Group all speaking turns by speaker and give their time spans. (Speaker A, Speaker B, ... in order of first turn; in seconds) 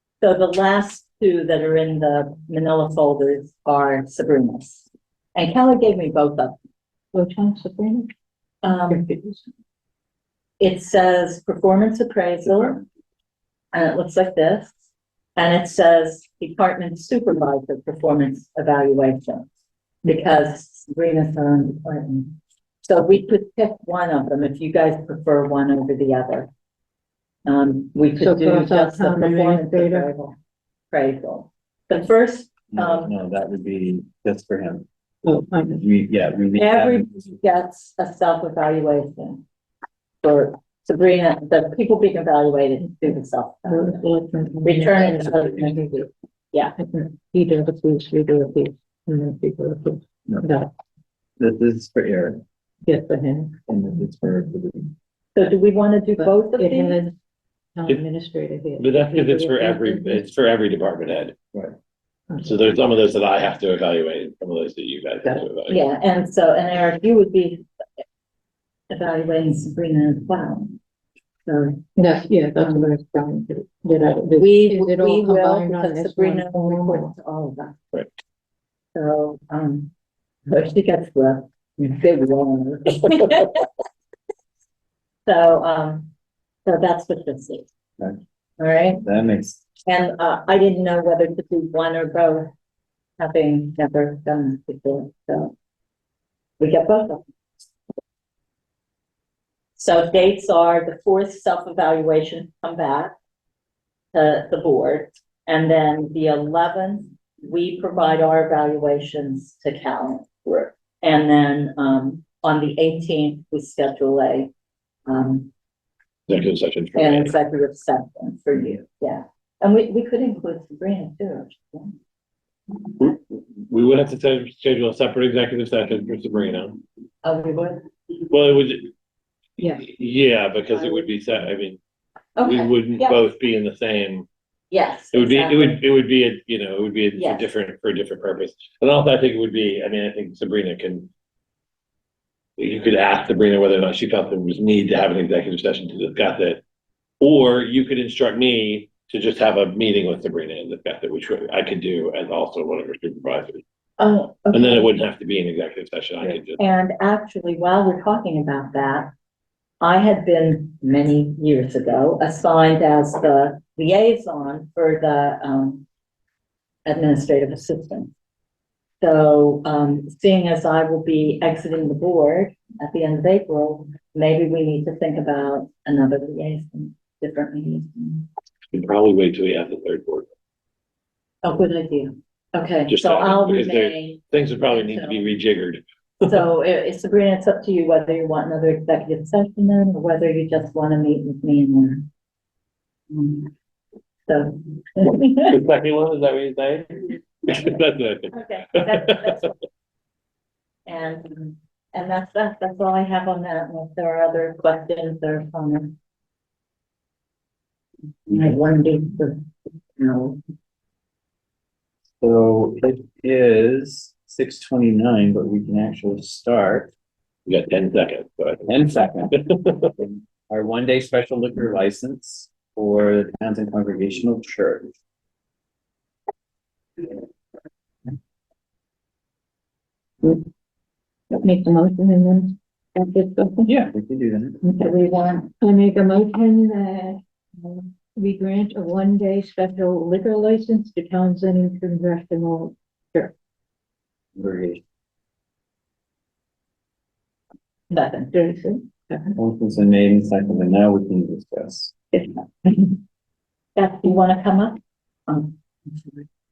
Speaker A: 0.2-6.6, 8.6-9.0, 10.6-12.9, 13.7-14.7, 15.4-19.5, 20.0-26.5, 27.5-30.4, 30.9-33.1, 36.5-39.5, 40.2-44.1, 44.6-46.7, 55.3-57.1, 65.7-67.7, 68.9-70.8, 71.5-71.9, 72.6-72.9, 74.4-77.8, 79.0-79.9, 80.5-83.7, 85.3-86.1, 86.7-87.7, 88.6-89.0, 89.8-92.5, 93.2-95.5, 96.6-97.2, 99.8-103.2, 104.1-110.3, 111.0-114.5, 115.1-115.5, 117.0-122.0, 127.2-127.9, 130.7-131.1, 132.4-133.2, 134.7-135.8, 137.1-137.5, 154.0-154.9, 156.2-159.1, 159.8-165.8, 166.8-168.1, 169.0-178.3, 181.4-185.3, 186.3-192.1, 193.1-193.5, 194.3-195.5, 198.3-199.6, 200.8-205.9, 208.3-210.4, 234.6-235.5, 247.9-248.3, 253.8-256.2
Speaker B: 7.1-8.1, 8.9-9.4, 28.2-30.1, 35.2-35.8, 43.1-45.8, 46.8-50.7, 52.9-53.6, 56.2-57.1, 57.8-60.3, 72.0-77.1, 231.3-233.7, 235.6-243.3, 248.3-249.3, 252.1-252.9
Speaker C: 32.7-34.9, 35.7-37.3, 51.4-52.4, 53.7-54.9, 89.0-89.7, 212.2-216.9, 218.7-219.4, 220.0-224.9, 233.6-234.6, 244.3-244.8, 249.3-251.9
Speaker D: 58.8-61.3, 62.4-65.8, 116.3-117.3, 123.0-126.8, 128.3-128.9, 129.6-131.8, 132.4-134.2, 135.1-141.1, 142.6-146.6, 147.2-153.6, 154.5-156.6, 178.7-180.3, 182.9-186.5, 195.5-199.4, 217.5-218.7, 219.3-219.9